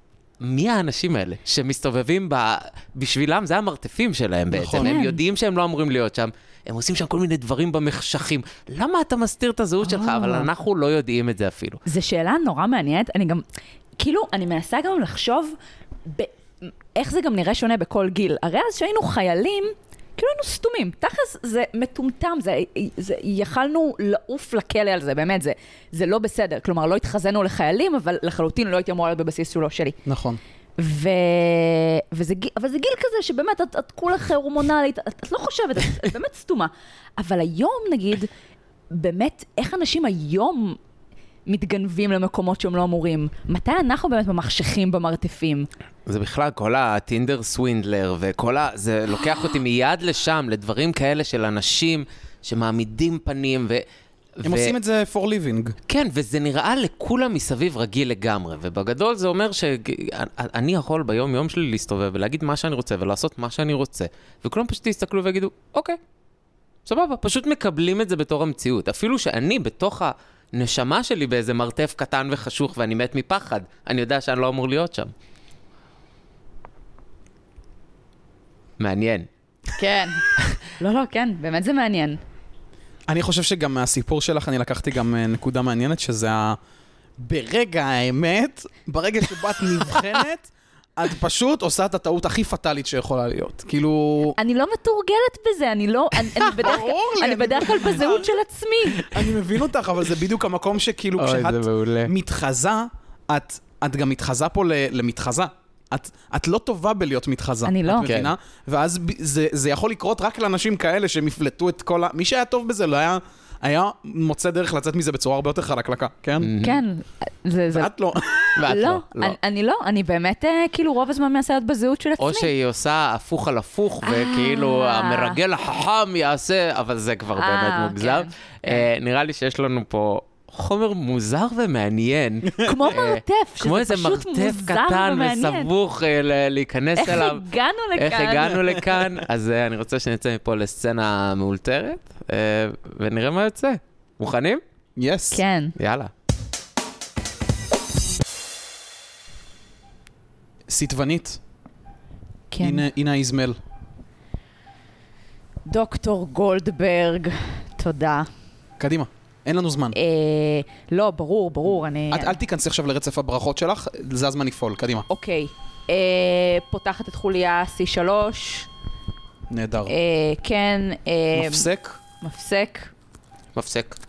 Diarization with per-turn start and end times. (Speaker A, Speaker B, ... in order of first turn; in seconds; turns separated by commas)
Speaker A: 0.4-11.8, Speaker B: 4.5-5.0, Speaker C: 4.8-5.2, Speaker C: 9.8-10.5, Speaker C: 11.9-13.4, Speaker C: 14.0-30.0, Speaker B: 30.1-30.4, Speaker C: 30.8-38.3, Speaker C: 38.9-40.8, Speaker C: 41.5-45.7, Speaker A: 46.1-53.9, Speaker A: 54.4-54.8, Speaker B: 54.5-55.8, Speaker A: 55.9-66.0, Speaker A: 66.9-75.1, Speaker A: 78.8-79.3, Speaker C: 79.8-82.2, Speaker B: 83.1-86.6, Speaker B: 87.2-94.4, Speaker C: 94.4-99.1, Speaker B: 96.5-98.3, Speaker B: 99.0-116.5, Speaker A: 101.2-102.1, Speaker C: 107.7-108.1, Speaker A: 108.0-108.3, Speaker A: 116.4-116.8, Speaker C: 116.6-117.9, Speaker B: 117.7-118.5, Speaker A: 118.5-119.4, Speaker C: 118.7-122.5, Speaker A: 122.2-137.4, Speaker C: 124.0-125.4, Speaker C: 127.3-128.9, Speaker C: 132.6-135.7, Speaker C: 137.0-138.8, Speaker A: 138.0-144.6, Speaker B: 145.0-145.4, Speaker C: 145.3-145.7, Speaker A: 145.8-146.1, Speaker B: 150.7-151.4, Speaker C: 152.5-152.9, Speaker B: 152.6-153.6, Speaker C: 155.7-158.3, Speaker B: 158.8-160.0, Speaker C: 159.9-162.4, Speaker B: 162.1-165.1, Speaker C: 165.1-168.7, Speaker B: 169.5-169.9, Speaker C: 169.9-171.7, Speaker B: 171.3-172.0, Speaker C: 172.2-172.9, Speaker A: 173.6-174.0